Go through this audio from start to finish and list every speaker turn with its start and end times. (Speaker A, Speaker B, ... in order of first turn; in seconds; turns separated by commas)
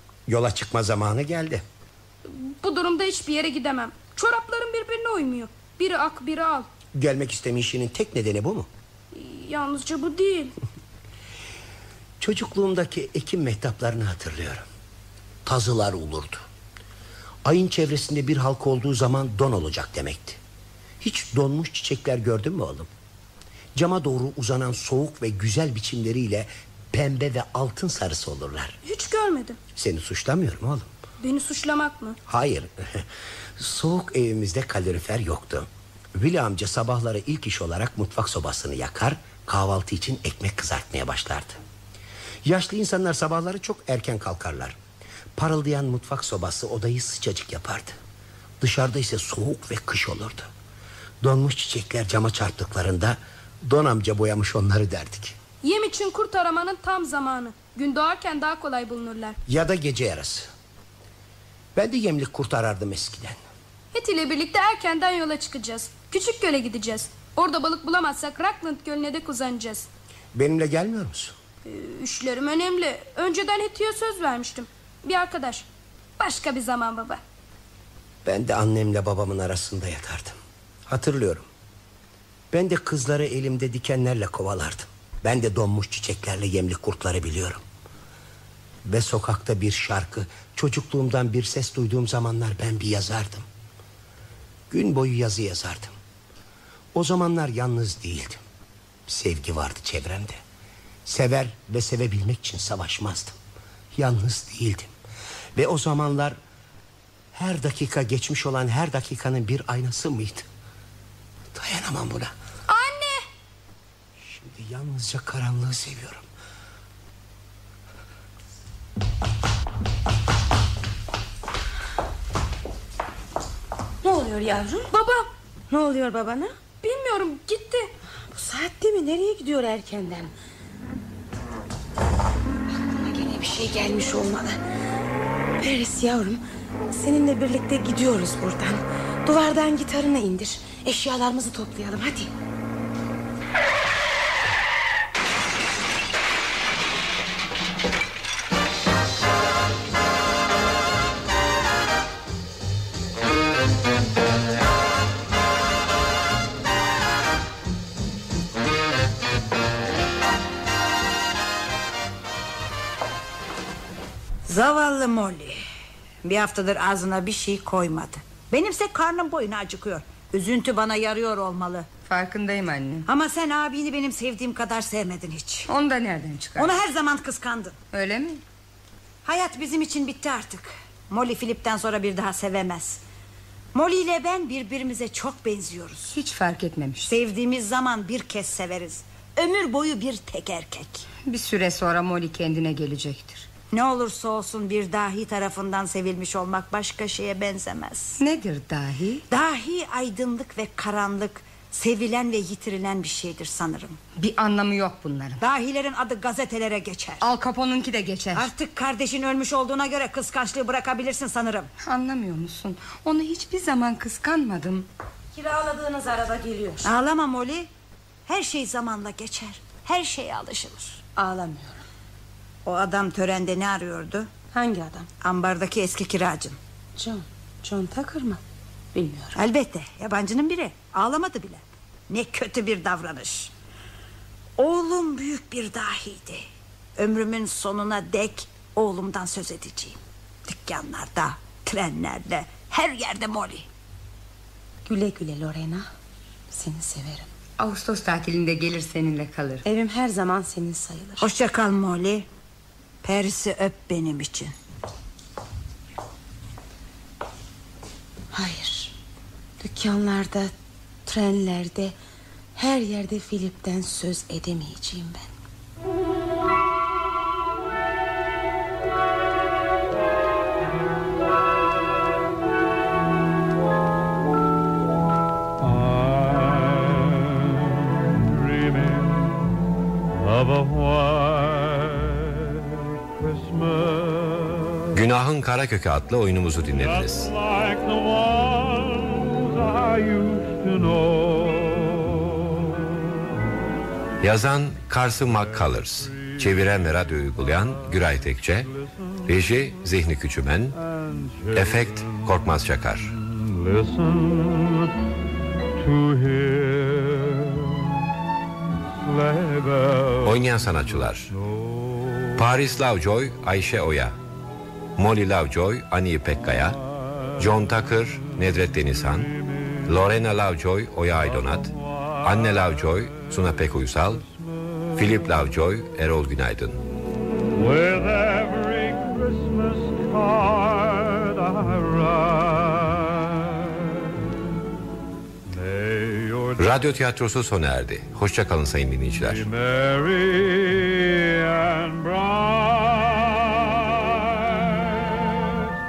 Speaker A: 0.3-1.6, Speaker B: 2.2-6.7, Speaker A: 6.9-8.7, Speaker B: 9.1-10.5, Speaker A: 12.2-14.6, Speaker A: 15.4-16.4, Speaker A: 17.4-20.4, Speaker A: 21.0-22.9, Speaker A: 23.7-28.8, Speaker B: 28.8-29.6, Speaker A: 29.7-30.9, Speaker B: 31.2-32.2, Speaker A: 32.3-33.1, Speaker A: 33.6-41.6, Speaker A: 42.4-44.8, Speaker A: 45.3-48.0, Speaker A: 48.6-50.5, Speaker A: 51.2-55.4, Speaker B: 55.6-59.4, Speaker A: 59.5-60.5, Speaker A: 61.7-63.4, Speaker B: 63.9-69.9, Speaker A: 70.3-71.3, Speaker B: 71.6-75.6, Speaker B: 76.2-77.2, Speaker A: 78.2-81.5, Speaker A: 82.5-87.6, Speaker A: 88.8-93.5, Speaker A: 94.7-95.9, Speaker A: 96.9-98.4, Speaker A: 99.1-100.4, Speaker A: 101.0-103.3, Speaker A: 103.9-104.9, Speaker A: 105.5-106.4, Speaker A: 107.3-110.5, Speaker A: 111.5-112.3, Speaker B: 112.7-113.2, Speaker A: 114.2-116.2, Speaker C: 124.0-124.9, Speaker B: 124.9-125.3, Speaker C: 125.7-126.5, Speaker B: 126.8-127.9, Speaker C: 128.3-130.3, Speaker C: 132.7-134.6, Speaker C: 135.6-136.4, Speaker C: 136.9-142.3, Speaker D: 164.4-165.6, Speaker D: 166.2-171.9, Speaker E: 172.0-173.1, Speaker D: 173.1-175.7, Speaker E: 175.7-176.8, Speaker D: 176.6-177.8, Speaker E: 177.9-178.4, Speaker D: 179.2-183.0, Speaker D: 183.7-186.1, Speaker E: 186.0-187.1, Speaker D: 187.0-191.1, Speaker E: 191.2-193.5, Speaker D: 193.7-198.2, Speaker E: 198.2-199.2, Speaker D: 199.3-204.0, Speaker E: 204.2-205.4, Speaker D: 205.4-207.2, Speaker E: 207.2-208.5, Speaker D: 208.3-211.7, Speaker E: 211.8-214.9, Speaker C: 215.3-216.9, Speaker D: 216.8-217.7, Speaker D: 218.3-221.0, Speaker C: 221.2-221.8, Speaker D: 222.6-224.3, Speaker C: 224.5-225.1, Speaker D: 225.2-226.6, Speaker C: 227.0-228.4, Speaker C: 228.9-229.4, Speaker D: 229.3-233.5, Speaker D: 234.6-236.4, Speaker D: 237.0-243.7, Speaker C: 244.8-245.9, Speaker C: 246.5-247.3, Speaker E: 247.6-249.6, Speaker C: 249.6-251.3, Speaker D: 251.2-252.3, Speaker D: 253.0-254.5, Speaker C: 258.3-258.9, Speaker C: 259.6-260.5, Speaker C: 261.1-261.9, Speaker C: 262.6-265.3, Speaker F: 275.6-279.5, Speaker F: 280.1-285.0, Speaker G: 284.9-287.3, Speaker F: 286.7-292.6, Speaker G: 294.2-298.7, Speaker F: 297.7-298.2, Speaker G: 299.2-300.8, Speaker F: 300.8-302.2, Speaker G: 301.5-303.1, Speaker F: 303.4-304.9, Speaker F: 305.8-307.8, Speaker F: 308.9-310.6, Speaker G: 310.2-311.3, Speaker G: 312.4-314.1, Speaker G: 314.9-316.8, Speaker G: 317.4-319.3, Speaker G: 319.9-321.7, Speaker G: 322.2-324.2, Speaker G: 324.9-326.8, Speaker F: 327.6-333.7, Speaker F: 335.5-336.7, Speaker G: 336.6-339.5, Speaker F: 339.2-343.4, Speaker F: 344.7-345.0